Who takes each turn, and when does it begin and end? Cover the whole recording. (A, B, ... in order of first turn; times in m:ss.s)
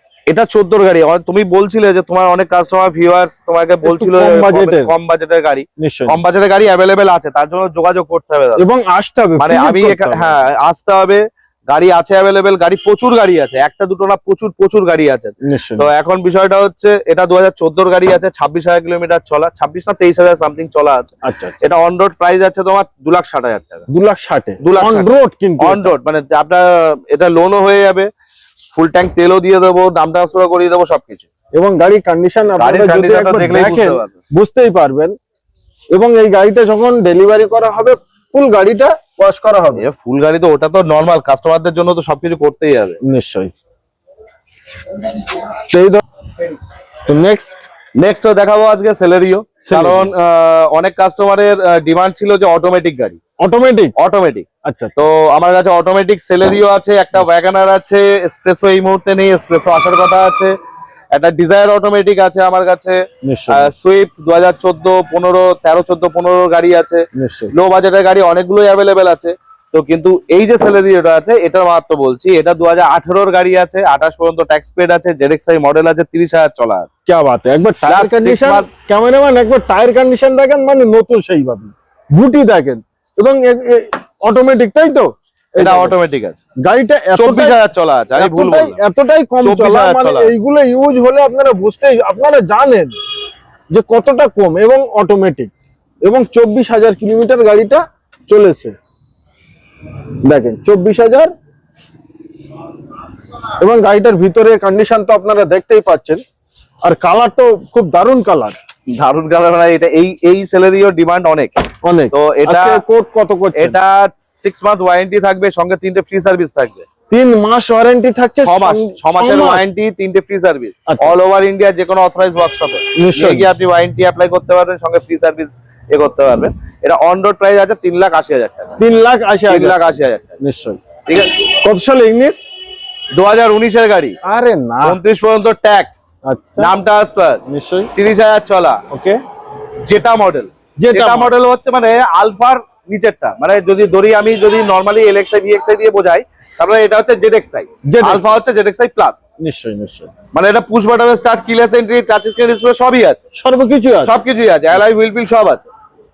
0:00.3-0:08.6 A
0:03.8-0:04.9 B
0:05.8-0:06.2 B
0:08.6-0:10.4 B
0:09.4-0:21.1 A
0:15.4-0:15.9 B
0:21.2-0:21.5 B
0:21.6-0:23.8 A
0:23.9-0:25.9 B
0:24.6-0:28.1 A
0:28.7-0:31.3 A
0:31.5-0:35.2 B
0:32.6-0:34.1 A
0:35.9-0:39.8 B
0:39.8-0:43.0 A
0:43.0-0:43.5 B
0:45.6-0:46.0 B
0:47.0-0:47.6 B
0:48.0-0:53.2 A
0:49.6-0:50.1 B
0:53.4-0:53.9 B
0:54.0-1:00.5 A
0:54.6-0:55.0 B
1:01.1-1:16.9 A
1:03.2-1:03.7 B
1:07.1-1:07.5 B
1:17.1-1:26.0 B
1:17.9-1:18.7 A
1:25.6-1:26.4 A
1:26.6-1:27.6 B
1:27.1-1:28.8 A
1:28.2-1:33.0 B
1:29.4-1:30.4 A
1:33.7-1:35.5 B
1:36.0-1:38.8 B
1:40.2-1:41.3 B
1:43.6-1:46.2 B
1:46.8-1:48.6 B
1:48.9-1:52.8 A
1:51.8-1:53.8 B
1:53.5-1:56.8 A
1:57.1-1:59.6 B
1:58.4-2:08.8 A
2:00.9-2:01.2 B
2:03.0-2:03.5 B
2:08.8-2:10.8 B
2:09.5-2:10.4 A
2:11.1-2:11.4 A
2:11.6-2:12.4 B
2:13.1-2:14.2 A
2:14.2-2:15.0 B
2:14.8-2:16.0 A
2:16.2-2:16.7 B
2:16.6-2:17.4 A
2:17.5-2:17.9 B
2:17.9-2:18.8 A
2:18.9-2:19.2 B
2:19.8-2:29.2 A
2:20.8-2:21.3 B
2:27.8-2:28.3 B
2:29.4-2:30.1 B
2:30.3-2:33.2 A
2:33.4-2:34.2 B
2:34.0-2:35.7 A